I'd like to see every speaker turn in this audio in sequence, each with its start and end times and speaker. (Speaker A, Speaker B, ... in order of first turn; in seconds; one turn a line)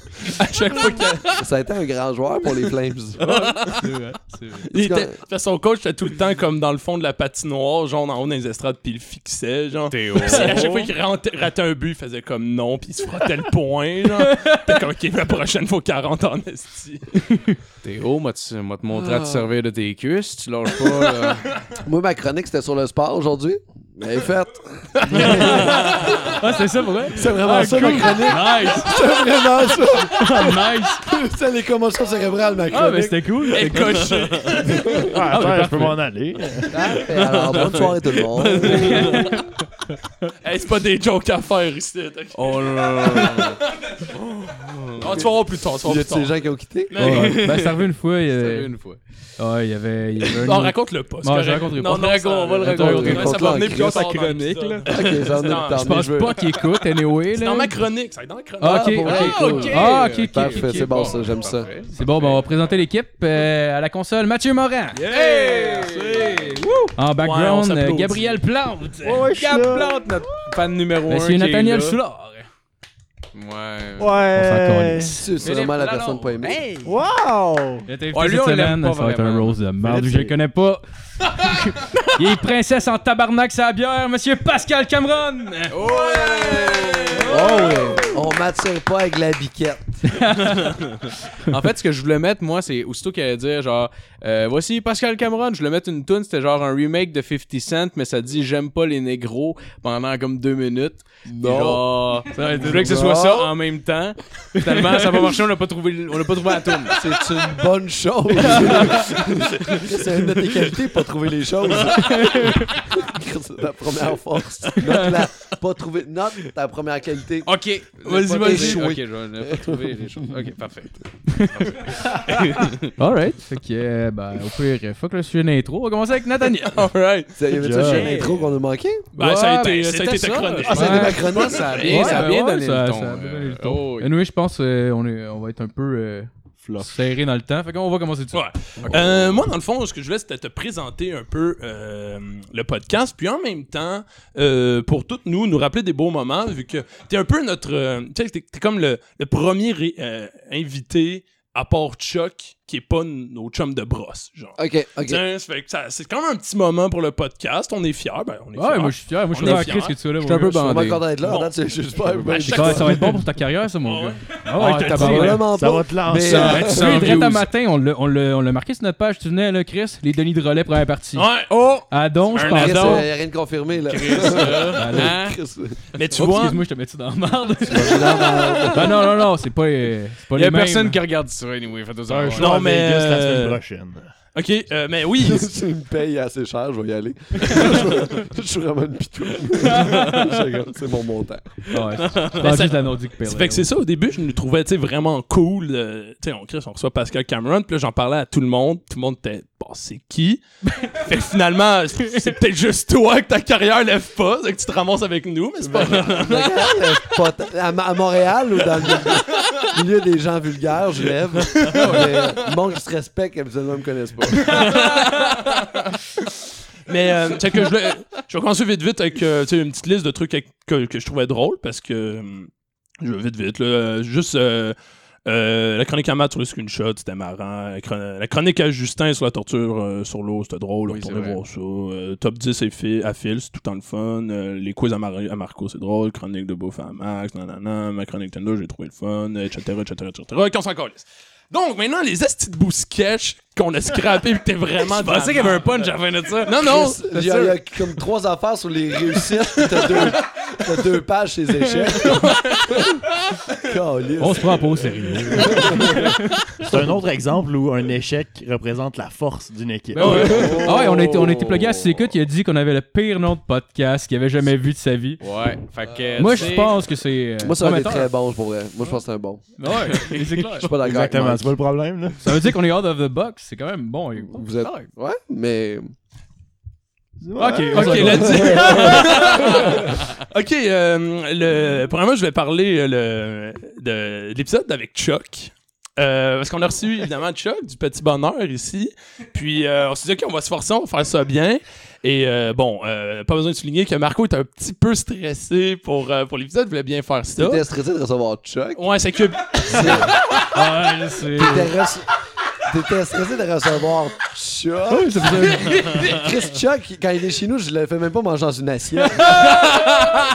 Speaker A: 0.2-1.3
Speaker B: 1.4-3.3
Speaker C: 3.2-3.9
Speaker D: 3.2-4.7
Speaker A: 4.7-17.1
Speaker B: 4.7-5.1
Speaker C: 9.9-10.8
Speaker D: 10.3-10.7
Speaker D: 14.2-14.7
Speaker D: 17.2-17.6
Speaker C: 17.8-21.5
Speaker B: 18.9-19.5
Speaker B: 21.7-26.4
Speaker A: 25.0-26.1
Speaker D: 25.4-25.7
Speaker D: 26.2-29.0
Speaker B: 27.1-33.2
Speaker D: 30.1-31.0
Speaker D: 32.7-34.1
Speaker A: 33.5-35.0
Speaker B: 34.6-35.2
Speaker E: 35.1-36.8
Speaker D: 35.3-36.0
Speaker B: 36.7-39.2
Speaker C: 37.0-39.5
Speaker D: 38.6-39.5
Speaker A: 40.4-43.5
Speaker C: 42.3-43.6
Speaker C: 44.1-45.2
Speaker A: 45.0-46.3
Speaker B: 45.0-45.3
Speaker B: 45.8-47.1
Speaker A: 46.9-47.4
Speaker D: 47.0-48.7
Speaker C: 47.0-49.0
Speaker D: 49.4-53.5
Speaker A: 50.4-55.8
Speaker C: 51.8-55.1
Speaker B: 52.6-54.1
Speaker B: 54.9-56.4
Speaker D: 55.8-57.7
Speaker A: 57.3-59.6
Speaker D: 58.6-61.1
Speaker B: 58.9-61.7
Speaker C: 59.0-62.5
Speaker D: 61.9-65.0
Speaker C: 64.9-66.9
Speaker D: 66.9-69.8
Speaker A: 67.2-68.4
Speaker E: 69.0-69.9
Speaker C: 69.3-72.0
Speaker D: 71.1-72.5
Speaker C: 73.3-74.2
Speaker E: 74.0-75.2
Speaker D: 74.3-75.2
Speaker B: 75.2-76.6
Speaker C: 75.4-76.9
Speaker E: 76.8-77.8
Speaker D: 77.9-85.8
Speaker C: 78.1-79.6
Speaker B: 79.8-80.3
Speaker C: 85.7-88.1
Speaker D: 87.1-87.8
Speaker B: 87.2-90.2
Speaker D: 90.1-90.8
Speaker C: 90.5-107.1
Speaker B: 101.3-103.5
Speaker D: 102.3-103.1
Speaker D: 104.5-105.3
Speaker B: 106.9-117.6
Speaker D: 108.5-109.0
Speaker C: 111.8-112.0
Speaker D: 112.0-112.7
Speaker C: 117.4-122.9
Speaker A: 118.0-118.8
Speaker B: 118.2-120.5
Speaker D: 121.3-121.7
Speaker D: 123.0-126.8
Speaker A: 126.4-127.4
Speaker B: 127.4-129.1
Speaker E: 127.5-128.2
Speaker C: 127.8-128.5
Speaker A: 129.2-132.2
Speaker C: 129.2-134.1
Speaker B: 130.7-132.2
Speaker D: 130.7-131.2
Speaker D: 131.8-138.4
Speaker A: 138.3-160.0
Speaker C: 138.8-139.3
Speaker B: 154.6-155.2
Speaker D: 158.5-160.7
Speaker C: 159.4-161.2
Speaker B: 160.6-163.1
Speaker A: 161.2-161.5
Speaker C: 162.1-162.9
Speaker A: 162.3-162.9
Speaker D: 162.5-165.4
Speaker A: 163.8-164.2
Speaker C: 164.6-165.4
Speaker B: 164.8-167.2
Speaker E: 165.4-167.2
Speaker C: 166.2-167.4
Speaker D: 166.3-171.3
Speaker A: 171.2-171.5
Speaker C: 171.5-173.1
Speaker D: 171.9-173.1
Speaker A: 172.4-172.6
Speaker B: 172.4-175.8
Speaker C: 173.8-175.4
Speaker D: 174.7-175.2
Speaker A: 175.9-176.6
Speaker D: 176.1-181.0
Speaker B: 177.6-179.0
Speaker C: 180.3-182.5
Speaker E: 182.1-184.1
Speaker A: 182.4-183.6
Speaker A: 184.3-185.5
Speaker B: 185.2-191.7
Speaker C: 189.8-190.2
Speaker D: 191.7-193.7
Speaker C: 192.0-192.4
Speaker A: 192.3-206.7
Speaker B: 205.6-214.8
Speaker A: 211.5-212.3
Speaker C: 214.6-215.3
Speaker A: 215.4-215.9
Speaker A: 216.9-222.5
Speaker A: 223.0-247.0
Speaker C: 230.8-231.4
Speaker C: 244.9-247.5
Speaker B: 246.6-253.0
Speaker A: 252.1-252.7
Speaker B: 253.5-256.2
Speaker D: 254.2-256.2
Speaker E: 256.6-260.4
Speaker D: 259.9-265.2
Speaker B: 260.0-261.2
Speaker A: 260.0-260.5
Speaker C: 260.2-262.0
Speaker C: 265.2-266.8
Speaker D: 266.1-268.1
Speaker B: 267.4-269.4
Speaker D: 269.6-270.7
Speaker C: 269.9-270.4
Speaker B: 270.6-271.5
Speaker E: 270.7-272.6
Speaker D: 272.2-274.9
Speaker B: 274.3-275.9
Speaker E: 277.2-279.5
Speaker D: 277.4-279.5
Speaker A: 277.7-297.6
Speaker B: 278.3-279.8
Speaker B: 297.4-298.8
Speaker A: 298.8-300.2
Speaker B: 299.6-300.4
Speaker D: 300.5-301.7
Speaker B: 301.3-302.1
Speaker B: 302.6-309.8
Speaker D: 304.9-306.1
Speaker C: 309.7-310.2